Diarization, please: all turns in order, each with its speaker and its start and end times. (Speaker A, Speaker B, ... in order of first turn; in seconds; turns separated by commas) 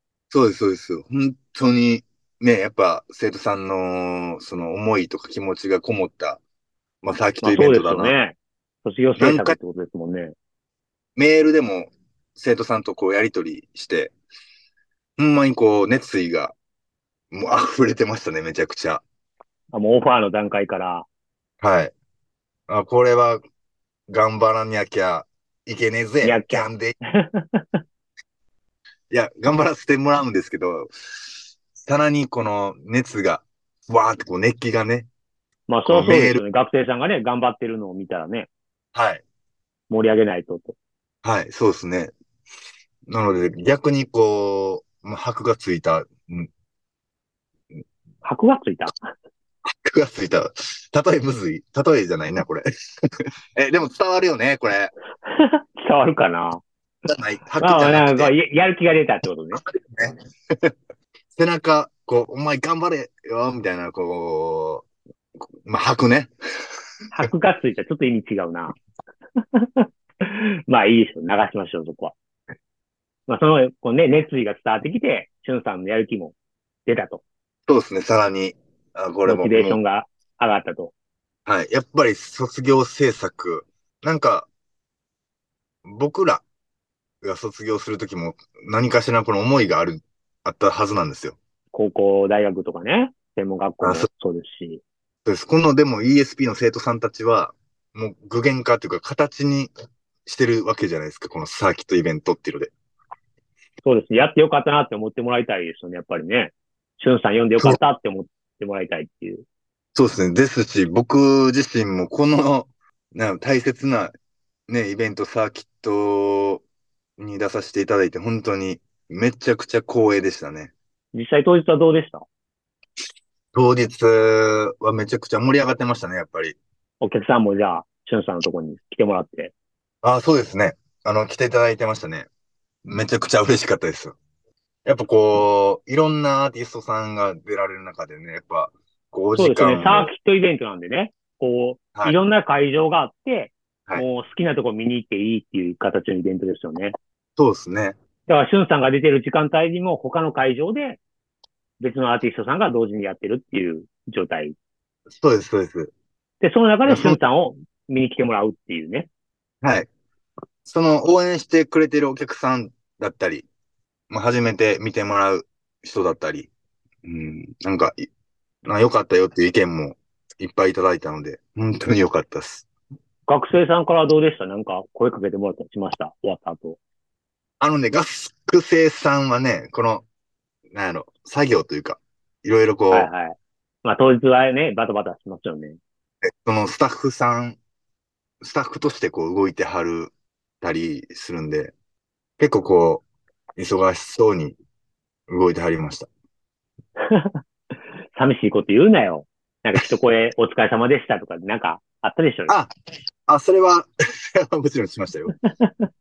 Speaker A: 0.3-6.4, Speaker A: 7.0-8.2, Speaker B: 7.4-10.3, Speaker A: 9.2-9.6, Speaker A: 11.2-14.1, Speaker A: 15.2-16.6, Speaker A: 17.3-19.0, Speaker B: 19.7-21.1, Speaker A: 21.6-21.9, Speaker A: 22.7-23.4, Speaker A: 24.1-26.9, Speaker B: 26.2-27.8, Speaker A: 29.1-30.9, Speaker A: 31.8-35.1, Speaker B: 35.7-38.5, Speaker A: 35.9-36.4, Speaker A: 38.9-39.2, Speaker B: 39.9-40.8, Speaker A: 41.2-42.1, Speaker A: 43.1-46.5, Speaker B: 48.2-48.9, Speaker A: 49.7-54.9, Speaker B: 55.3-56.6, Speaker A: 57.1-58.3, Speaker B: 57.6-59.6, Speaker A: 59.6-60.7, Speaker A: 61.4-64.9, Speaker A: 65.6-66.3, Speaker B: 67.1-68.8, Speaker B: 69.4-72.2, Speaker B: 73.3-76.3, Speaker B: 76.9-77.2, Speaker A: 77.7-79.8, Speaker B: 79.3-80.9, Speaker A: 81.5-84.5, Speaker A: 85.8-86.4, Speaker A: 87.2-91.4, Speaker B: 91.7-94.8, Speaker A: 93.8-94.1, Speaker A: 95.2-99.7, Speaker A: 100.3-102.7, Speaker B: 103.8-109.5, Speaker A: 110.0-114.1, Speaker A: 114.7-116.6, Speaker A: 117.2-120.7, Speaker B: 121.1-122.2, Speaker A: 123.5-126.6, Speaker B: 127.0-129.5, Speaker A: 130.0-132.3, Speaker A: 132.8-134.2, Speaker A: 134.8-140.1, Speaker B: 139.4-146.9, Speaker A: 147.4-148.0, Speaker B: 148.3-151.0, Speaker B: 151.8-154.6, Speaker A: 155.2-155.9, Speaker B: 156.4-159.1, Speaker A: 156.9-157.2, Speaker A: 159.6-159.9, Speaker A: 160.7-163.5, Speaker A: 164.1-166.5, Speaker A: 167.0-168.1, Speaker A: 168.7-172.7, Speaker B: 173.3-176.8, Speaker A: 177.6-180.1, Speaker A: 180.7-183.1, Speaker B: 182.9-185.8, Speaker A: 186.3-187.6, Speaker A: 188.4-191.7, Speaker A: 192.4-193.0, Speaker A: 193.6-194.6, Speaker A: 195.3-196.1, Speaker B: 197.0-197.4, Speaker B: 198.2-202.6, Speaker A: 203.3-205.3, Speaker B: 205.4-205.9